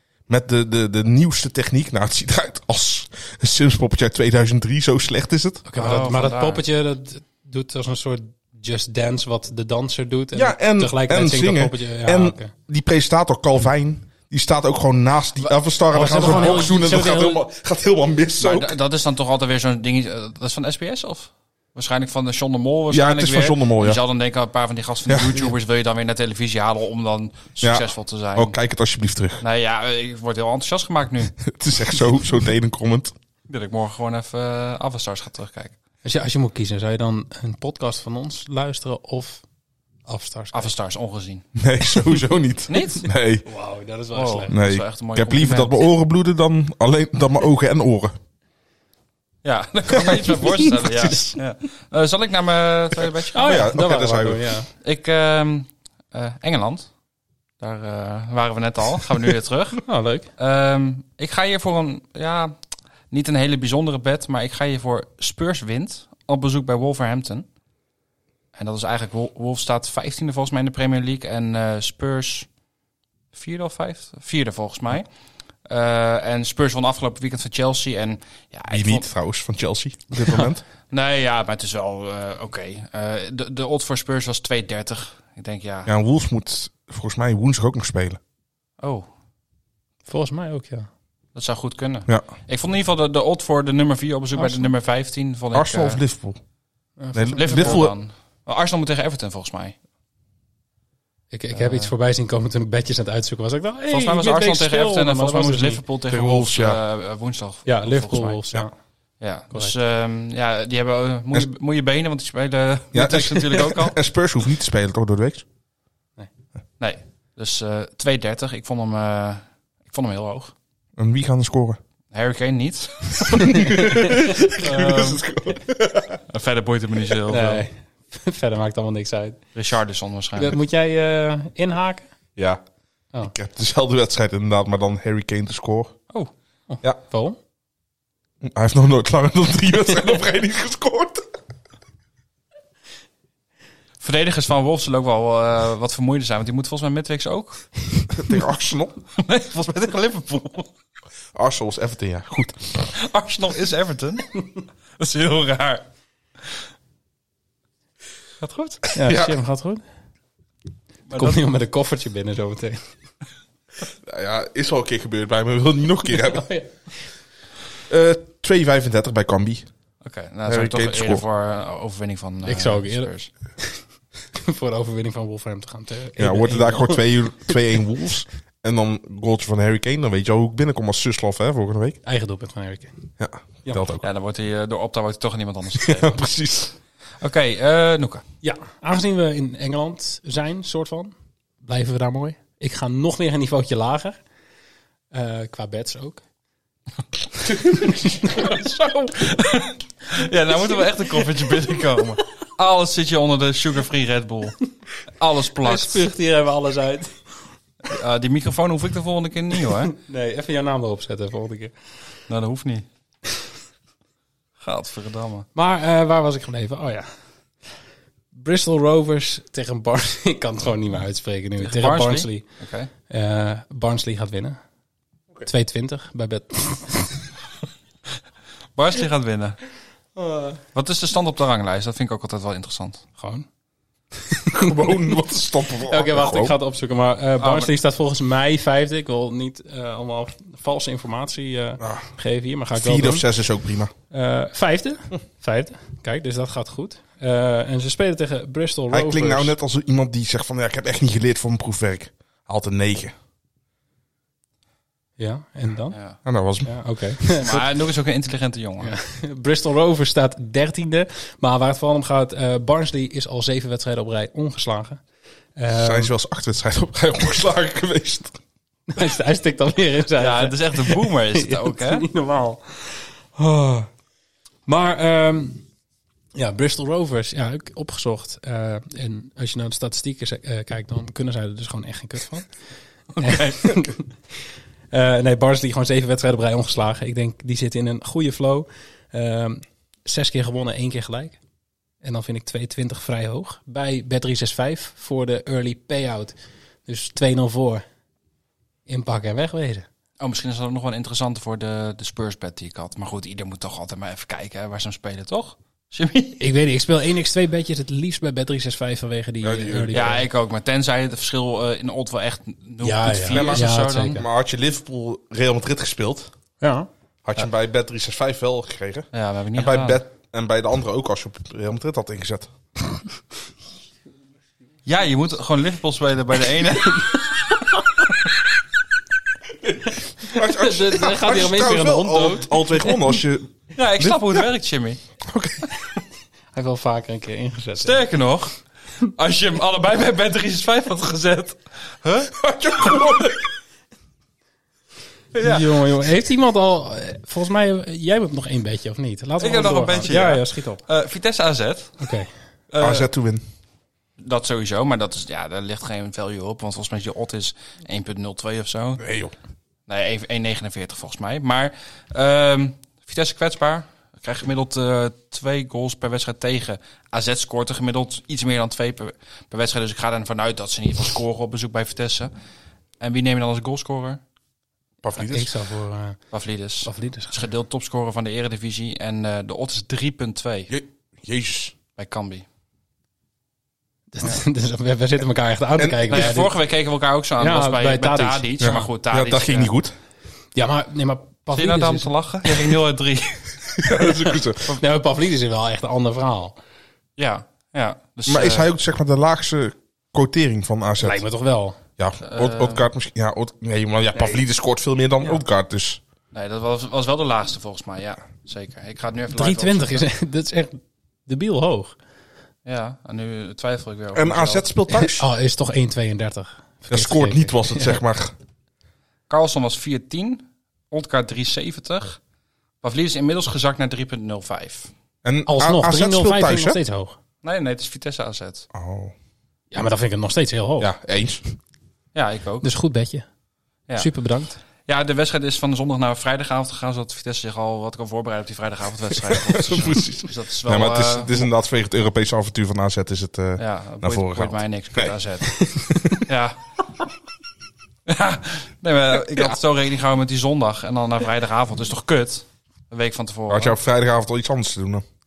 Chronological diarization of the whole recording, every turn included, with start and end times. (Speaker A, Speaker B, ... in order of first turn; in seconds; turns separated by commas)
Speaker A: 0.3-5.6, Speaker B: 5.7-12.5, Speaker C: 5.8-6.6, Speaker A: 10.3-18.8, Speaker B: 15.9-17.4, Speaker C: 16.1-16.8, Speaker C: 18.4-28.6, Speaker A: 22.9-24.0, Speaker A: 25.1-25.4, Speaker A: 27.6-29.4, Speaker C: 29.4-31.4, Speaker A: 31.4-33.1, Speaker C: 33.5-35.8, Speaker B: 36.0-39.4, Speaker B: 40.1-40.7, Speaker C: 40.5-41.5, Speaker A: 41.6-43.5, Speaker C: 42.7-43.1, Speaker B: 43.5-44.5, Speaker C: 44.1-45.9, Speaker A: 44.5-48.1, Speaker C: 49.4-53.6, Speaker A: 49.9-51.4, Speaker B: 53.3-54.7, Speaker A: 53.4-54.5, Speaker C: 54.8-56.9, Speaker C: 57.6-59.8, Speaker B: 59.9-60.3, Speaker C: 60.4-62.5, Speaker C: 63.1-67.5, Speaker C: 68.5-72.5, Speaker C: 73.3-75.1, Speaker C: 75.7-79.1, Speaker A: 78.7-80.6, Speaker C: 80.9-85.9, Speaker A: 85.9-88.2, Speaker C: 88.8-89.1, Speaker B: 90.1-90.9, Speaker C: 91.3-96.0, Speaker B: 94.4-94.7, Speaker A: 95.5-96.4, Speaker B: 97.0-97.8, Speaker A: 97.1-97.9, Speaker C: 97.4-99.8, Speaker B: 101.3-105.8, Speaker C: 101.5-101.9, Speaker C: 103.9-108.4, Speaker A: 106.1-106.8, Speaker B: 107.7-108.7, Speaker C: 109.2-114.0, Speaker A: 112.9-115.4, Speaker C: 116.8-120.5, Speaker A: 121.0-121.8, Speaker C: 122.1-123.5, Speaker A: 123.3-126.2, Speaker B: 124.6-125.2, Speaker C: 126.3-127.7, Speaker B: 127.3-129.4, Speaker C: 129.6-130.6, Speaker B: 130.4-132.1, Speaker A: 132.4-132.6, Speaker A: 133.2-136.0, Speaker B: 136.7-137.4, Speaker A: 138.4-141.3, Speaker C: 144.0-147.8, Speaker A: 148.1-149.0, Speaker C: 149.2-150.7, Speaker A: 151.3-152.9, Speaker C: 152.9-154.4, Speaker C: 155.0-155.8, Speaker C: 158.4-158.8, Speaker B: 158.9-159.8, Speaker A: 159.0-159.4, Speaker C: 161.1-161.4, Speaker B: 161.1-162.9, Speaker A: 164.0-166.5, Speaker B: 166.2-166.7, Speaker A: 167.9-169.7, Speaker C: 170.0-173.3, Speaker A: 170.5-171.2, Speaker B: 172.4-173.8, Speaker B: 174.3-177.6, Speaker A: 176.2-182.0, Speaker B: 182.0-183.1, Speaker A: 183.2-184.1, Speaker C: 184.0-186.3, Speaker A: 185.8-186.7, Speaker C: 187.2-188.2, Speaker B: 188.4-194.2, Speaker B: 195.1-196.2, Speaker B: 197.5-199.2, Speaker C: 199.2-204.6, Speaker C: 205.1-206.0, Speaker B: 205.6-207.2, Speaker C: 207.9-209.9, Speaker B: 209.9-211.7, Speaker C: 212.3-212.8, Speaker C: 214.6-215.5, Speaker B: 215.6-217.1, Speaker B: 218.3-222.5, Speaker C: 221.6-222.9, Speaker B: 223.1-224.6, Speaker B: 225.5-227.2, Speaker C: 228.8-229.6, Speaker B: 230.2-230.6, Speaker C: 230.8-233.0, Speaker B: 233.2-233.5, Speaker B: 234.3-234.9, Speaker A: 234.5-236.6, Speaker B: 235.9-243.3, Speaker C: 237.4-237.7, Speaker A: 241.8-242.1, Speaker A: 242.7-243.9, Speaker B: 244.1-249.5, Speaker A: 248.9-253.2, Speaker B: 255.2-256.0, Speaker C: 255.9-256.2, Speaker A: 256.2-256.8, Speaker B: 256.6-257.6, Speaker C: 257.4-258.9, Speaker B: 258.8-265.0, Speaker B: 265.6-266.1, Speaker A: 265.7-268.4, Speaker B: 268.9-273.9, Speaker C: 270.2-272.1, Speaker B: 274.7-275.6, Speaker B: 276.4-282.5, Speaker C: 283.2-283.8, Speaker B: 283.2-284.1, Speaker B: 284.9-291.4, Speaker B: 292.0-296.3, Speaker B: 296.9-297.8, Speaker B: 298.9-299.9, Speaker C: 300.2-306.4, Speaker B: 306.4-310.3, Speaker A: 309.4-310.1, Speaker C: 309.9-314.2, Speaker B: 312.8-314.2, Speaker A: 313.3-316.3, Speaker B: 316.6-316.9, Speaker A: 317.2-322.5, Speaker C: 319.1-320.0, Speaker C: 324.9-327.3, Speaker B: 330.0-333.0, Speaker A: 330.2-334.5, Speaker C: 333.8-335.0, Speaker A: 335.3-335.7, Speaker B: 336.5-338.0, Speaker C: 337.8-343.0, Speaker A: 342.4-343.4, Speaker C: 345.3-345.9, Speaker B: 345.4-350.8, Speaker C: 349.4-352.0, Speaker B: 352.0-352.3, Speaker C: 352.7-353.1, Speaker A: 352.8-353.4, Speaker C: 354.2-359.0, Speaker A: 359.0-359.4, Speaker C: 359.9-372.3, Speaker C: 373.0-374.2, Speaker A: 375.0-375.5, Speaker B: 375.1-376.2, Speaker C: 376.3-380.7, Speaker B: 376.9-377.4, Speaker A: 380.7-381.8, Speaker C: 382.0-382.4, Speaker B: 384.1-386.5, Speaker A: 385.8-386.4, Speaker C: 386.1-389.7, Speaker B: 387.4-388.5, Speaker A: 388.6-389.9, Speaker B: 390.6-392.1, Speaker C: 391.5-393.5, Speaker A: 393.8-394.6, Speaker B: 394.0-396.6, Speaker C: 397.2-398.7, Speaker A: 398.3-401.2, Speaker B: 401.0-401.8, Speaker A: 402.0-406.0, Speaker C: 402.2-402.9, Speaker C: 406.3-410.1, Speaker B: 409.3-412.0, Speaker C: 412.7-414.7, Speaker A: 414.1-415.3, Speaker B: 414.9-418.0, Speaker A: 416.9-418.3, Speaker C: 419.3-422.2, Speaker C: 422.8-424.9, Speaker A: 425.2-426.8, Speaker B: 425.5-427.2, Speaker C: 427.4-428.7, Speaker A: 428.7-429.1, Speaker B: 429.7-430.9, Speaker A: 430.8-431.4, Speaker C: 432.1-432.7, Speaker B: 432.6-433.3, Speaker B: 434.0-434.6, Speaker C: 434.9-441.5, Speaker A: 439.3-445.1, Speaker C: 443.6-446.8, Speaker B: 445.6-446.2, Speaker C: 448.1-453.8, Speaker A: 453.5-455.0